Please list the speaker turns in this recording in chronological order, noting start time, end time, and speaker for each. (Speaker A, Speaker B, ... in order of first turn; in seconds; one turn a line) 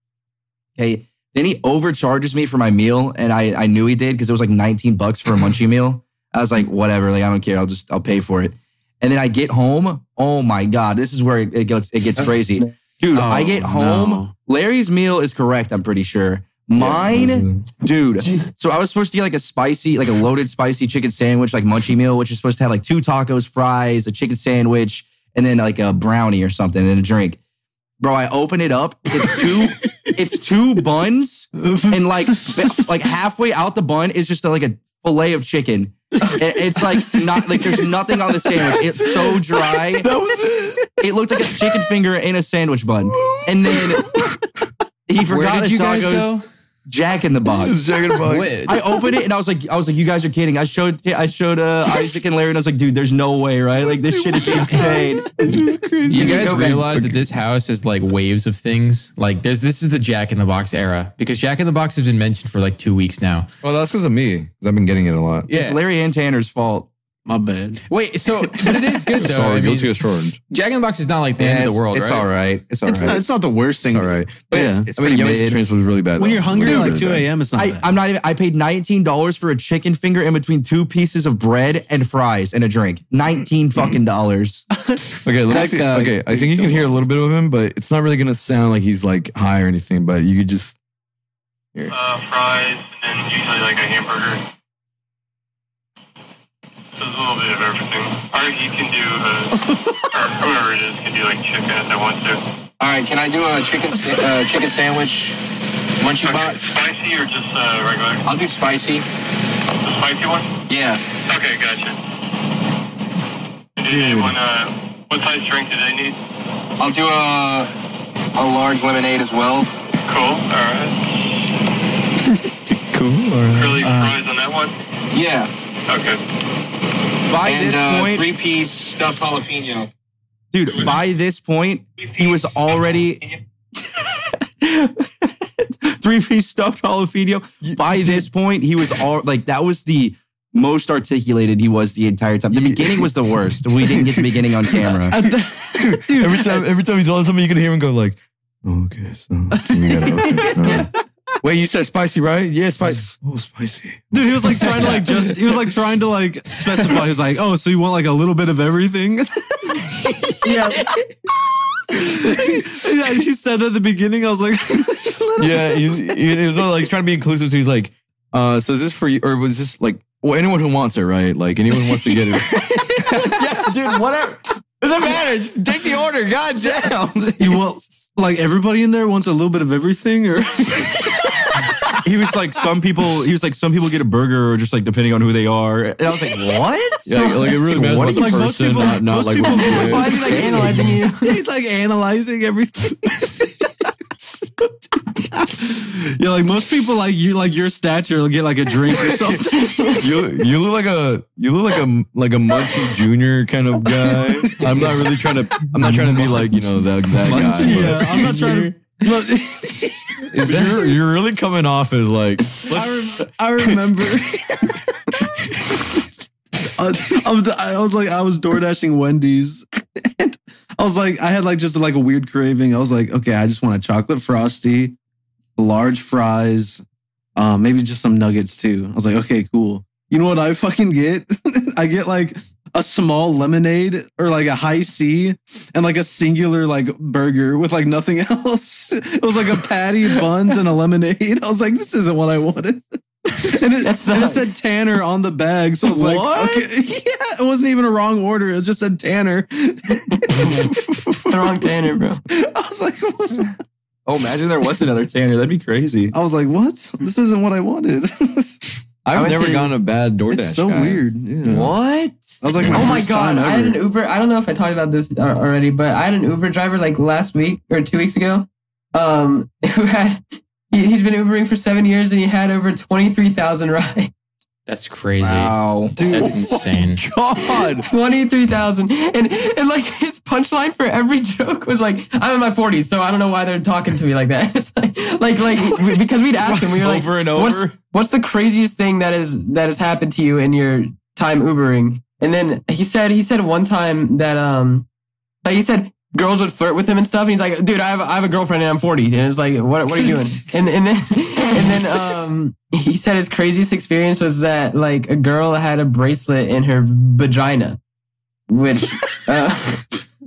Speaker A: 0.8-27.4
Speaker B: 13.1-14.3
Speaker C: 16.8-17.6
Speaker A: 28.0-40.1
Speaker B: 31.6-32.6
Speaker B: 37.0-37.2
Speaker C: 40.0-40.9
Speaker A: 41.0-44.0
Speaker C: 43.1-44.4
Speaker A: 45.1-46.3
Speaker D: 45.2-46.4
Speaker A: 46.9-47.8
Speaker C: 47.6-48.7
Speaker D: 48.2-48.8
Speaker A: 48.6-55.6
Speaker C: 54.1-57.2
Speaker B: 54.4-55.0
Speaker D: 56.1-63.5
Speaker A: 56.1-56.8
Speaker C: 63.6-65.5
Speaker D: 65.5-65.8
Speaker A: 65.5-66.9
Speaker B: 67.2-67.8
Speaker D: 67.9-69.9
Speaker B: 68.5-68.8
Speaker C: 69.1-70.4
Speaker D: 70.5-72.3
Speaker A: 71.4-73.2
Speaker B: 72.8-74.9
Speaker C: 73.9-77.3
Speaker A: 74.5-75.6
Speaker B: 76.2-77.9
Speaker A: 76.6-77.0
Speaker A: 77.5-84.6
Speaker B: 84.8-87.0
Speaker C: 85.2-90.8
Speaker E: 91.9-94.4
Speaker E: 97.0-102.4
Speaker B: 99.6-100.1
Speaker F: 102.8-105.4
Speaker F: 106.0-106.8
Speaker E: 106.2-108.2
Speaker F: 108.2-109.0
Speaker E: 109.8-110.5
Speaker F: 110.7-111.0
Speaker E: 111.2-112.0
Speaker E: 113.8-116.2
Speaker F: 116.8-117.7
Speaker F: 118.3-119.7
Speaker E: 120.0-121.0
Speaker C: 122.8-124.1
Speaker E: 123.5-124.8
Speaker F: 125.1-125.5
Speaker E: 125.9-126.2
Speaker A: 127.3-128.3
Speaker F: 127.4-129.9
Speaker A: 130.5-133.2
Speaker A: 134.6-135.3
Speaker A: 135.8-145.2
Speaker C: 137.6-138.3
Speaker C: 142.5-144.5
Speaker B: 145.1-146.7
Speaker C: 145.3-150.9
Speaker B: 149.5-150.9
Speaker C: 151.4-155.7
Speaker B: 154.1-160.5
Speaker G: 160.4-160.9
Speaker B: 161.9-166.2
Speaker C: 165.4-177.6
Speaker B: 177.4-182.0
Speaker A: 182.0-187.1
Speaker C: 187.1-190.9
Speaker G: 187.1-187.4
Speaker A: 187.7-188.6
Speaker B: 187.7-193.7
Speaker G: 189.4-191.4
Speaker B: 194.4-194.7
Speaker B: 195.2-199.9
Speaker G: 199.4-200.1
Speaker C: 200.0-208.7
Speaker B: 204.5-206.5
Speaker B: 207.2-210.9
Speaker A: 207.4-207.7
Speaker D: 208.1-208.6
Speaker C: 210.3-213.3
Speaker B: 212.6-215.6
Speaker B: 216.6-224.9
Speaker B: 225.6-226.8
Speaker B: 227.3-250.8
Speaker G: 243.8-244.6
Speaker A: 245.9-246.7
Speaker C: 246.1-246.5
Speaker G: 251.3-252.2
Speaker B: 252.2-253.6
Speaker A: 254.1-256.1
Speaker B: 256.1-258.6
Speaker C: 259.0-261.8
Speaker A: 259.2-259.5
Speaker B: 260.3-261.8
Speaker A: 261.6-262.1
Speaker B: 262.4-263.8
Speaker C: 262.6-262.9
Speaker G: 262.7-274.1
Speaker D: 274.7-277.0
Speaker A: 275.2-275.9
Speaker B: 275.9-276.7
Speaker C: 277.0-277.9
Speaker G: 277.8-294.9
Speaker A: 286.4-287.7
Speaker G: 295.4-307.8
Speaker G: 308.5-309.9